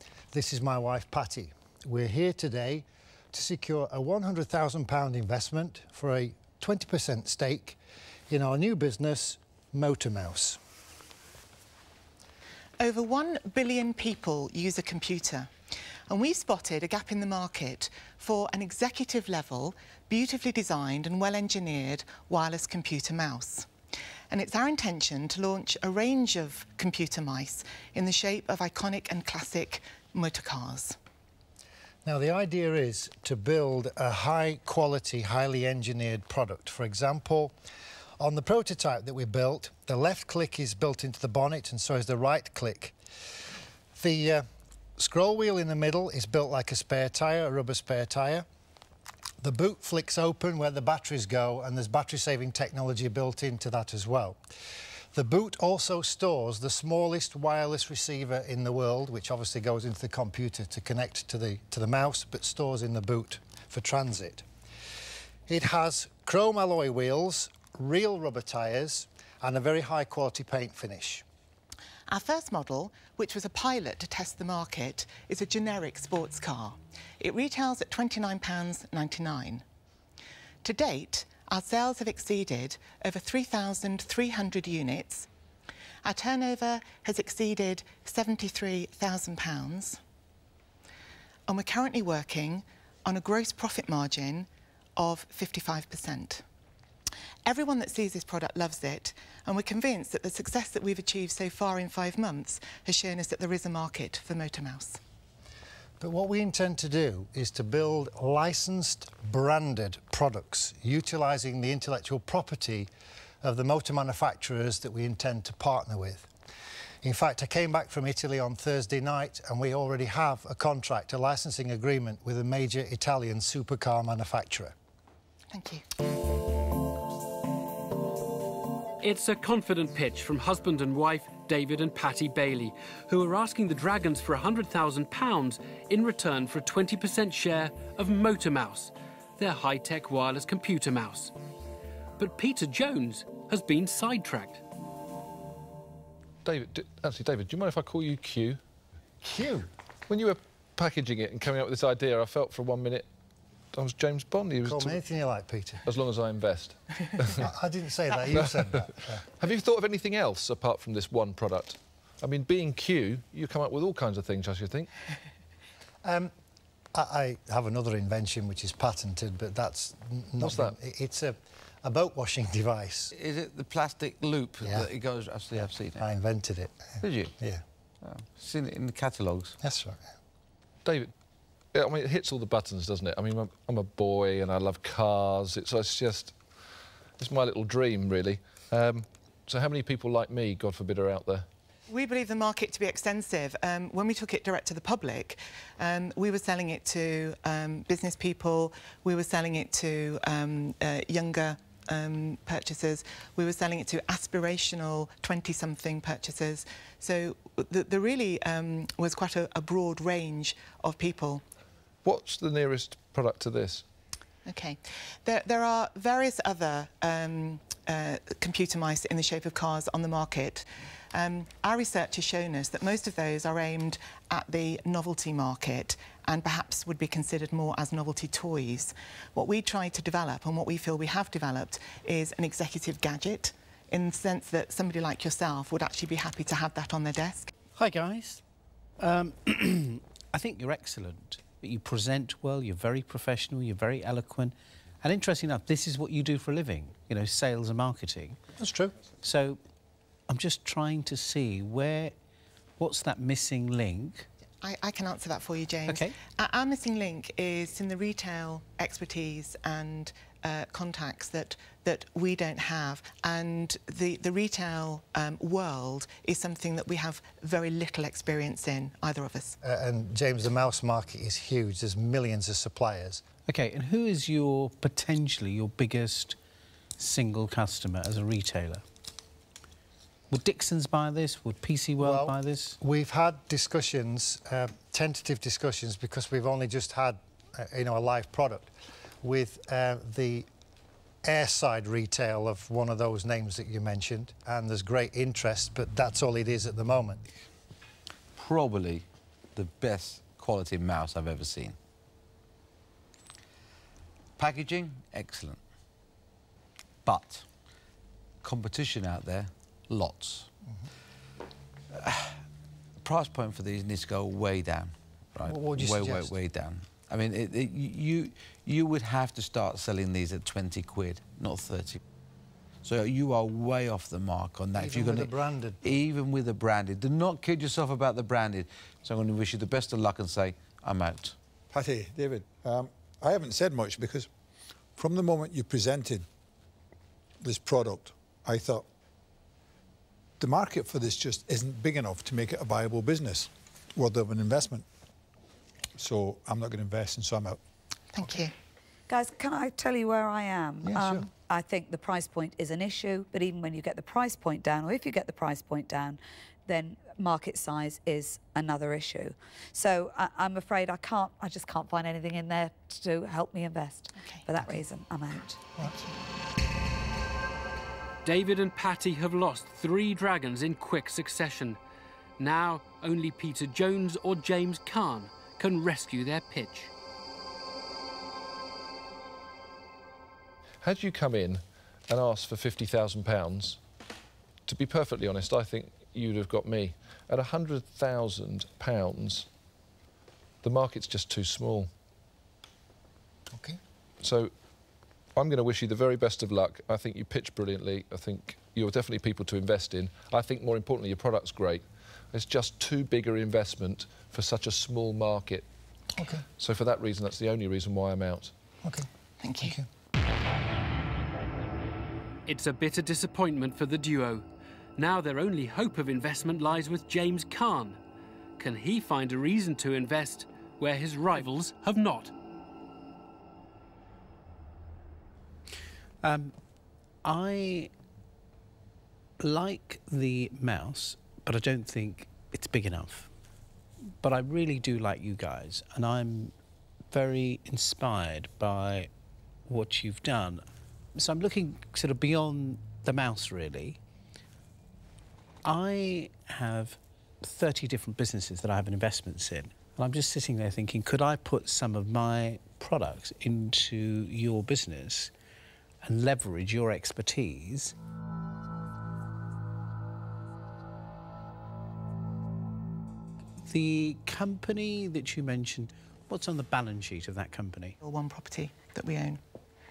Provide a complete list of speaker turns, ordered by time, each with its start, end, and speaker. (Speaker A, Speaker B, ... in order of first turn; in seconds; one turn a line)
Speaker A: 0.3-7.8
Speaker A: 8.3-10.6
Speaker B: 12.8-15.5
Speaker B: 16.1-23.7
Speaker B: 24.3-31.0
Speaker A: 32.0-37.5
Speaker A: 38.2-43.0
Speaker A: 44.0-44.5
Speaker A: 45.0-48.5
Speaker A: 49.4-54.4
Speaker A: 55.1-64.5
Speaker A: 65.5-71.2
Speaker B: 72.1-79.6
Speaker B: 80.6-85.3
Speaker B: 86.0-90.0
Speaker B: 91.5-96.4
Speaker B: 97.5-105.0
Speaker A: 106.0-112.9
Speaker A: 113.4-116.3
Speaker A: 117.0-124.7
Speaker B: 125.5-125.8
Speaker C: 129.0-141.3
Speaker C: 142.2-144.6
Speaker D: 146.4-148.6
Speaker A: 149.2-149.7
Speaker D: 150.1-153.1
Speaker D: 153.7-155.0
Speaker A: 154.6-155.8
Speaker D: 155.9-157.4
Speaker A: 157.3-159.3
Speaker D: 159.4-164.9
Speaker A: 166.0-166.3
Speaker A: 166.9-173.1
Speaker D: 170.4-170.8
Speaker E: 173.1-176.1
Speaker A: 174.6-174.9
Speaker A: 176.0-177.6
Speaker E: 177.0-177.3
Speaker E: 178.0-179.6
Speaker A: 179.6-180.0
Speaker D: 180.8-181.1
Speaker D: 181.7-186.4
Speaker D: 187.2-191.5
Speaker B: 191.9-211.4
Speaker D: 212.1-213.8
Speaker B: 214.5-237.5
Speaker F: 237.8-238.4
Speaker F: 239.0-248.4
Speaker A: 248.6-248.9
Speaker F: 249.2-249.6
Speaker F: 250.3-252.1
Speaker F: 252.8-254.3
Speaker B: 254.6-269.6
Speaker F: 255.9-256.2
Speaker A: 269.6-273.2
Speaker F: 273.5-276.4
Speaker F: 277.0-278.8
Speaker F: 280.3-282.8
Speaker A: 282.0-290.5
Speaker A: 291.2-297.2
Speaker E: 298.3-301.8
Speaker E: 304.4-305.6
Speaker E: 307.1-307.5
Speaker E: 308.4-310.5
Speaker E: 311.9-312.4
Speaker E: 313.0-322.0
Speaker A: 315.5-316.3
Speaker E: 322.8-331.4
Speaker A: 324.8-325.9
Speaker G: 331.7-334.3
Speaker G: 335.0-336.3
Speaker G: 337.4-338.9
Speaker G: 340.4-344.9
Speaker G: 346.0-347.6
Speaker B: 348.1-348.5
Speaker H: 349.1-365.7
Speaker B: 364.2-364.8
Speaker B: 365.8-366.1
Speaker C: 368.2-371.8
Speaker C: 372.4-376.9
Speaker D: 380.8-383.8
Speaker D: 384.7-389.5
Speaker D: 390.6-391.9
Speaker A: 393.5-393.8
Speaker D: 394.2-394.5
Speaker D: 395.4-405.7
Speaker A: 406.1-406.4
Speaker D: 406.6-408.5
Speaker B: 409.4-409.8
Speaker A: 409.6-409.9
Speaker C: 412.5-414.4
Speaker C: 415.0-418.0
Speaker C: 418.6-422.3
Speaker F: 426.2-426.6
Speaker F: 427.2-427.9
Speaker F: 429.4-433.3
Speaker F: 434.2-436.5
Speaker F: 437.1-439.1
Speaker F: 439.7-444.0
Speaker F: 445.6-455.3
Speaker F: 456.0-457.9
Speaker F: 463.6-468.0
Speaker B: 468.0-469.4